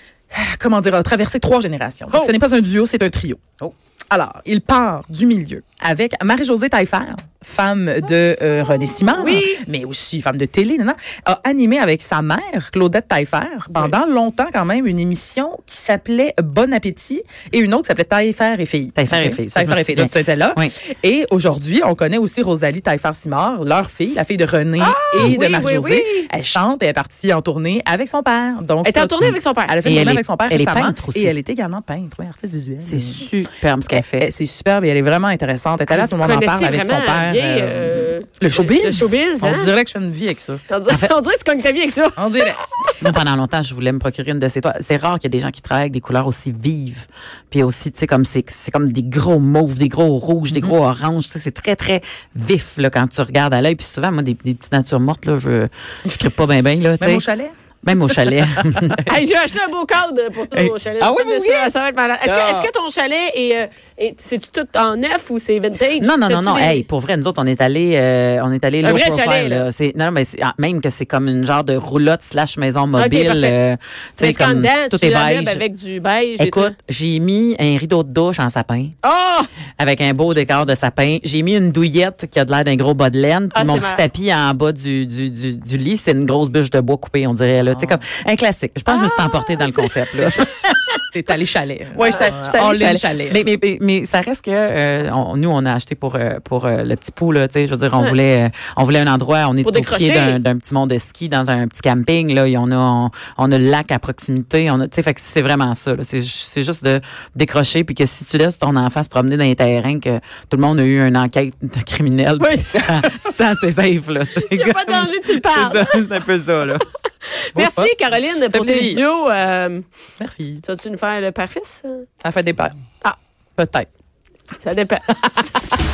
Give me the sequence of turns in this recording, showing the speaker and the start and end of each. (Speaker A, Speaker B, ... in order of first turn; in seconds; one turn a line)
Speaker A: 0.3-33.3
Speaker B: 9.2-9.6
Speaker C: 18.9-20.7
Speaker B: 24.8-26.3
Speaker B: 28.8-29.8
Speaker C: 29.8-31.3
Speaker C: 32.8-34.3
Speaker A: 34.1-40.6
Speaker B: 35.9-39.7
Speaker B: 40.7-42.9
Speaker A: 42.2-42.7
Speaker C: 43.0-57.2
Speaker A: 57.0-57.5
Speaker C: 57.8-59.1
Speaker B: 59.0-66.8
Speaker C: 60.6-61.7
Speaker C: 62.2-62.7
Speaker C: 66.0-75.6
Speaker B: 68.8-69.7
Speaker B: 72.9-73.6
Speaker B: 74.2-76.8
Speaker C: 76.4-78.9
Speaker B: 79.0-79.5
Speaker C: 79.8-91.0
Speaker B: 83.5-84.0
Speaker A: 87.6-88.0
Speaker B: 88.9-90.4
Speaker A: 91.1-93.4
Speaker C: 92.0-116.8
Speaker B: 99.6-100.4
Speaker B: 112.4-113.1
Speaker B: 114.3-116.1
Speaker B: 117.3-119.8
Speaker A: 117.5-117.9
Speaker A: 118.5-119.0
Speaker A: 120.2-120.6
Speaker B: 120.6-122.0
Speaker A: 122.2-122.7
Speaker A: 123.6-123.9
Speaker B: 124.6-125.1